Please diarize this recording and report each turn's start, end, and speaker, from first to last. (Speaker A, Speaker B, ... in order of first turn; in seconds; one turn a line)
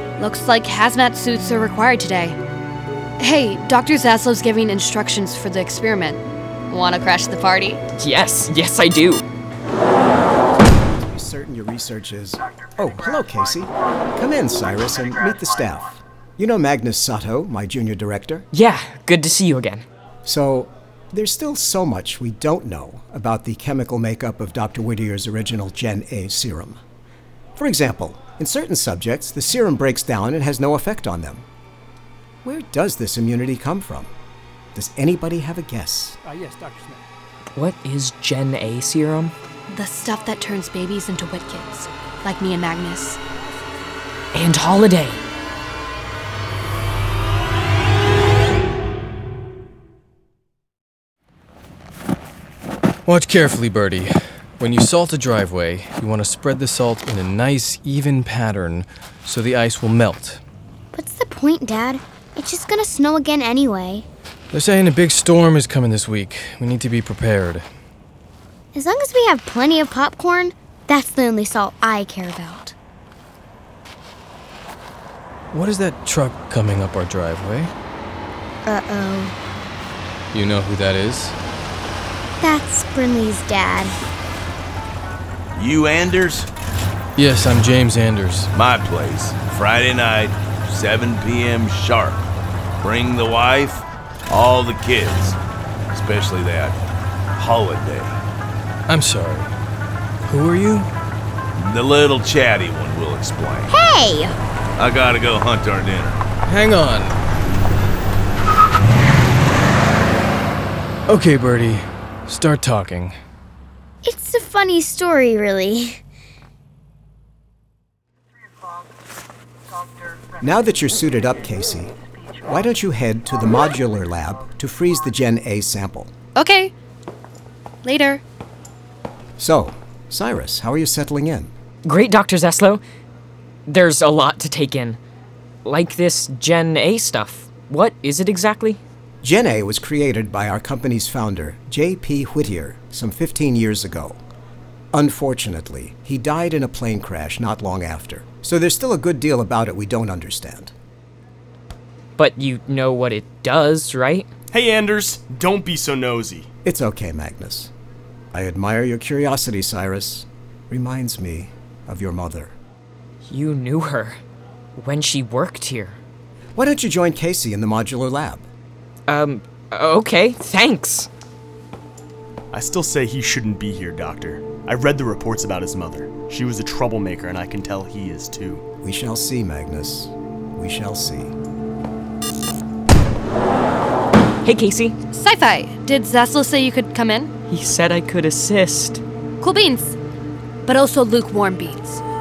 Speaker A: 0.2-2.4
Speaker A: 3.2-6.2
Speaker A: 6.7-7.8
Speaker B: 8.0-9.2
Speaker C: 10.9-18.4
Speaker B: 18.5-19.8
Speaker C: 20.2-26.8
Speaker C: 27.6-31.4
Speaker C: 32.4-34.1
Speaker C: 34.7-36.2
Speaker D: 36.4-36.9
Speaker B: 37.5-39.3
Speaker A: 39.7-43.2
Speaker B: 44.3-45.2
Speaker E: 53.0-60.4
Speaker F: 60.9-64.0
Speaker E: 64.5-67.6
Speaker F: 68.7-72.7
Speaker E: 75.5-77.7
Speaker F: 78.6-79.3
Speaker E: 80.3-81.3
Speaker F: 82.4-83.9
Speaker G: 85.5-86.5
Speaker E: 87.2-88.5
Speaker G: 88.5-92.2
Speaker G: 92.8-95.4
Speaker G: 95.9-96.8
Speaker G: 97.4-98.2
Speaker E: 98.9-99.5
Speaker E: 100.2-100.9
Speaker G: 101.5-103.7
Speaker F: 103.7-104.3
Speaker G: 104.8-106.2
Speaker E: 106.5-107.1
Speaker E: 111.1-113.1
Speaker F: 114.0-116.0
Speaker C: 120.4-126.1
Speaker A: 126.3-126.7
Speaker A: 127.8-128.2
Speaker C: 129.4-131.5
Speaker B: 131.8-132.8
Speaker B: 133.7-135.0
Speaker B: 135.6-138.8
Speaker C: 139.2-144.2
Speaker C: 144.9-150.7
Speaker B: 152.2-154.3
Speaker D: 154.5-156.5
Speaker C: 156.6-157.7
Speaker C: 158.3-162.5
Speaker B: 163.2-164.2
Speaker B: 164.8-166.0
Speaker C: 166.5-168.4
Speaker B: 169.1-171.1
Speaker D: 172.5-178.6
Speaker C: 178.8-181.3
Speaker B: 184.4-184.9
Speaker A: 185.1-187.3
Speaker B: 187.5-189.0
Speaker A: 189.4-189.9
Speaker A: 190.6-192.0